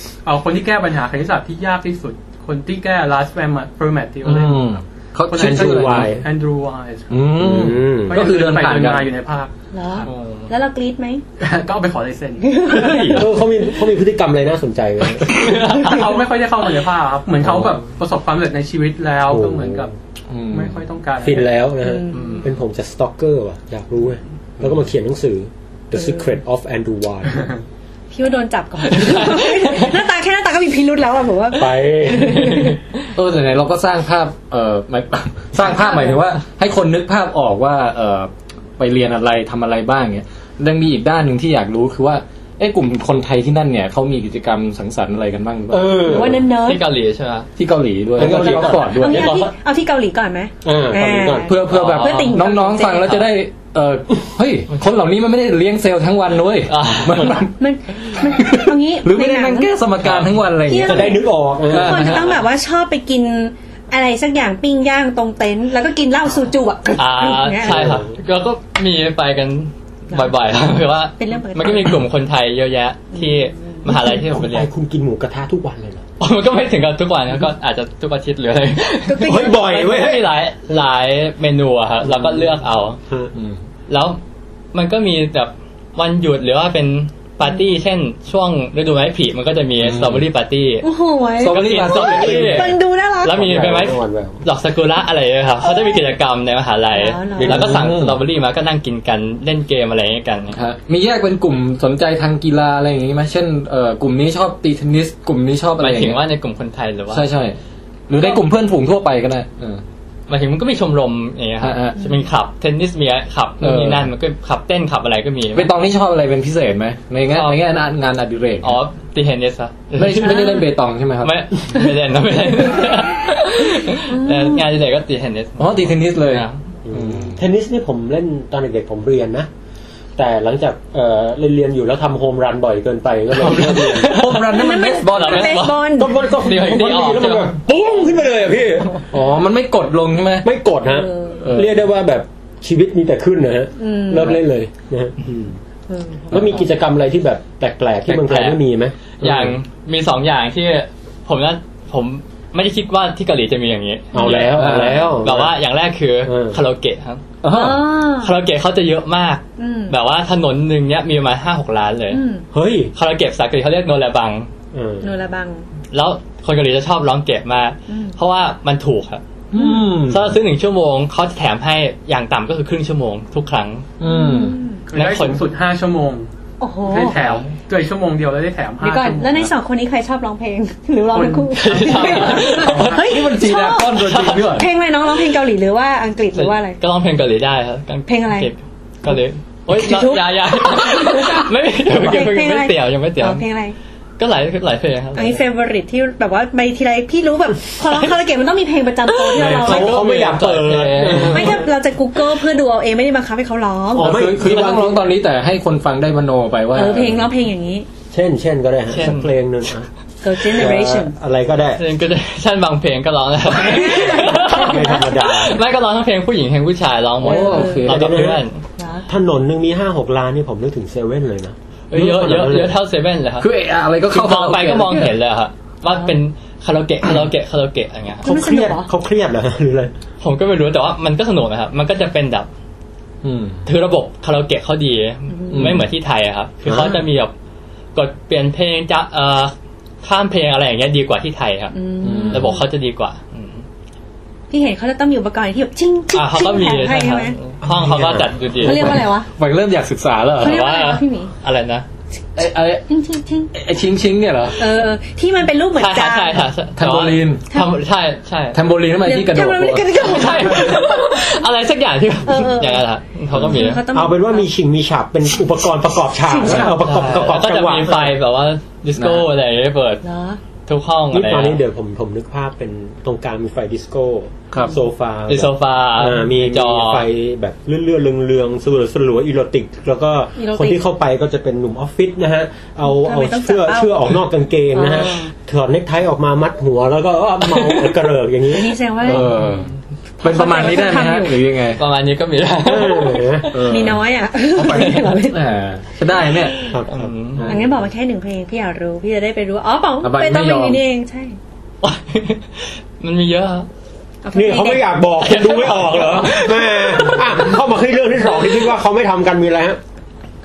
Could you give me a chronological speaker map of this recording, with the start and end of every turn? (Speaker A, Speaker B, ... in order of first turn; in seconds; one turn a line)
Speaker A: 0.2-4.7
Speaker B: 4.2-6.2
Speaker A: 5.2-7.2
Speaker C: 5.3-6.2
Speaker B: 7.1-9.1
Speaker C: 7.4-8.2
Speaker A: 8.1-10.1
Speaker D: 9.7-11.2
Speaker E: 10.0-10.5
Speaker A: 11.4-12.5
Speaker D: 12.4-13.3
Speaker C: 13.1-15.4
Speaker A: 15.3-19.9
Speaker E: 15.4-16.0
Speaker C: 17.4-17.8
Speaker C: 19.3-19.9
Speaker B: 20.3-20.8
Speaker A: 20.5-21.5
Speaker C: 21.2-27.5
Speaker D: 21.8-22.4
Speaker E: 22.1-22.4
Speaker D: 25.9-26.3
Speaker D: 28.1-32.8
Speaker E: 28.9-29.9
Speaker C: 31.5-32.7
Speaker B: 33.1-46.4
Speaker D: 35.6-36.2
Speaker C: 45.7-46.4
Speaker D: 46.0-46.8
Speaker E: 46.6-47.5
Speaker B: 47.6-49.5
Speaker C: 48.1-49.1
Speaker D: 48.2-53.3
Speaker E: 49.0-49.5
Speaker C: 50.6-51.5
Speaker B: 51.4-57.5
Speaker E: 51.7-52.5
Speaker E: 56.7-57.4
Speaker D: 57.6-59.7
Speaker B: 58.1-62.3
Speaker D: 60.6-67.9
Speaker C: 60.8-62.2
Speaker E: 67.0-74.7
Speaker C: 67.6-68.0
Speaker D: 71.2-72.0
Speaker D: 73.1-74.2
Speaker C: 73.9-76.0
Speaker E: 76.2-83.0
Speaker D: 79.0-79.6
Speaker C: 79.2-80.3
Speaker C: 82.1-82.4
Speaker B: 83.3-83.6
Speaker E: 83.9-84.2
Speaker E: 84.7-90.9
Speaker B: 89.8-90.2
Speaker D: 90.8-93.5
Speaker B: 91.4-92.6
Speaker E: 91.4-100.6
Speaker C: 92.0-92.7
Speaker C: 93.3-94.4
Speaker D: 95.6-96.0
Speaker D: 96.9-97.7
Speaker C: 97.4-97.8
Speaker B: 97.4-98.2
Speaker B: 100.5-106.2
Speaker E: 105.8-107.3
Speaker B: 107.1-107.6
Speaker B: 108.1-109.8
Speaker E: 110.3-115.7
Speaker B: 111.6-112.0
Speaker B: 113.6-114.1
Speaker B: 115.5-118.8
Speaker E: 117.3-117.6
Speaker E: 118.6-120.6
Speaker B: 120.0-121.3
Speaker D: 120.2-120.6
Speaker E: 121.2-126.6
Speaker D: 124.0-124.6
Speaker B: 125.6-127.4
Speaker C: 126.8-129.5
Speaker C: 130.2-134.1
Speaker E: 133.3-137.6
Speaker B: 134.0-135.7
Speaker D: 134.4-136.1
Speaker C: 136.0-139.0
Speaker B: 139.1-140.5
Speaker C: 140.4-145.6
Speaker D: 140.8-141.5
Speaker B: 141.4-141.8
Speaker D: 143.8-144.4
Speaker D: 145.9-146.4
Speaker C: 146.3-149.5
Speaker B: 146.3-146.6
Speaker E: 148.1-148.6
Speaker E: 149.2-157.2
Speaker C: 154.1-155.5
Speaker B: 154.4-155.2
Speaker C: 156.2-156.6
Speaker B: 157.4-157.9
Speaker D: 157.5-158.3
Speaker E: 158.2-162.2
Speaker D: 159.6-160.0
Speaker D: 162.1-162.4
Speaker C: 162.5-162.9
Speaker E: 162.9-164.5
Speaker C: 164.7-165.1
Speaker D: 165.0-165.7
Speaker E: 165.9-169.2
Speaker D: 167.9-168.2
Speaker B: 169.5-170.4
Speaker D: 169.6-169.8
Speaker E: 170.1-173.9
Speaker B: 174.0-174.6
Speaker D: 174.0-174.8
Speaker A: 174.9-176.3
Speaker E: 174.9-175.4
Speaker D: 176.6-177.4
Speaker A: 176.8-179.5
Speaker D: 178.8-186.8
Speaker A: 181.1-182.9
Speaker E: 181.5-183.0
Speaker B: 182.3-184.7
Speaker E: 183.9-184.5
Speaker E: 186.3-193.4
Speaker D: 188.1-188.5
Speaker D: 189.7-193.8
Speaker E: 194.2-195.4
Speaker D: 195.1-200.0
Speaker E: 199.1-201.6
Speaker C: 199.3-201.7
Speaker B: 199.9-200.3
Speaker B: 201.0-201.3
Speaker D: 201.3-204.2
Speaker B: 203.9-207.3
Speaker C: 203.9-205.1
Speaker D: 206.7-207.9
Speaker C: 208.1-209.9
Speaker E: 208.9-209.3
Speaker D: 210.2-211.1
Speaker C: 210.4-211.8
Speaker E: 211.8-218.6
Speaker D: 213.6-215.1
Speaker C: 214.4-215.6
Speaker B: 217.2-218.3
Speaker D: 217.2-217.9
Speaker C: 217.8-218.4
Speaker D: 218.8-219.1
Speaker C: 219.1-222.7
Speaker E: 221.9-223.5
Speaker B: 223.4-225.1
Speaker E: 224.1-228.3
Speaker D: 228.2-228.9
Speaker C: 228.2-229.9
Speaker E: 230.2-232.5
Speaker B: 233.2-233.6
Speaker E: 233.7-237.3
Speaker D: 235.3-235.8
Speaker B: 235.5-235.9
Speaker C: 236.7-237.0
Speaker E: 237.9-243.6
Speaker D: 241.7-242.6
Speaker B: 242.0-242.5
Speaker D: 244.5-247.4
Speaker E: 246.1-249.0
Speaker C: 247.7-248.3
Speaker D: 248.6-249.3
Speaker B: 248.6-250.8
Speaker D: 250.4-251.3
Speaker E: 250.4-251.8
Speaker B: 252.3-252.9
Speaker D: 252.9-253.5
Speaker B: 253.5-254.7
Speaker D: 254.6-256.5
Speaker E: 255.8-258.6
Speaker B: 256.8-257.4
Speaker D: 257.5-257.8
Speaker B: 258.5-260.4
Speaker D: 259.0-261.3
Speaker E: 260.0-263.8
Speaker D: 262.2-264.5
Speaker B: 263.3-263.6
Speaker C: 263.9-268.1
Speaker D: 266.2-266.8
Speaker E: 266.7-270.0
Speaker B: 269.0-269.3
Speaker D: 270.0-270.4
Speaker E: 270.6-271.6
Speaker C: 271.1-288.8
Speaker E: 275.3-277.1
Speaker D: 280.4-280.8
Speaker D: 282.8-284.1
Speaker D: 284.7-285.3
Speaker D: 288.5-289.4
Speaker B: 289.0-289.7
Speaker D: 290.2-291.4
Speaker B: 290.2-291.8
Speaker E: 291.8-293.6
Speaker C: 292.6-293.7
Speaker B: 293.5-296.7
Speaker D: 293.7-295.4
Speaker E: 296.6-297.5
Speaker C: 296.7-297.6
Speaker D: 297.4-301.4
Speaker B: 300.0-300.8
Speaker E: 301.8-303.7
Speaker D: 304.2-304.9
Speaker C: 304.3-309.8
Speaker E: 305.2-307.6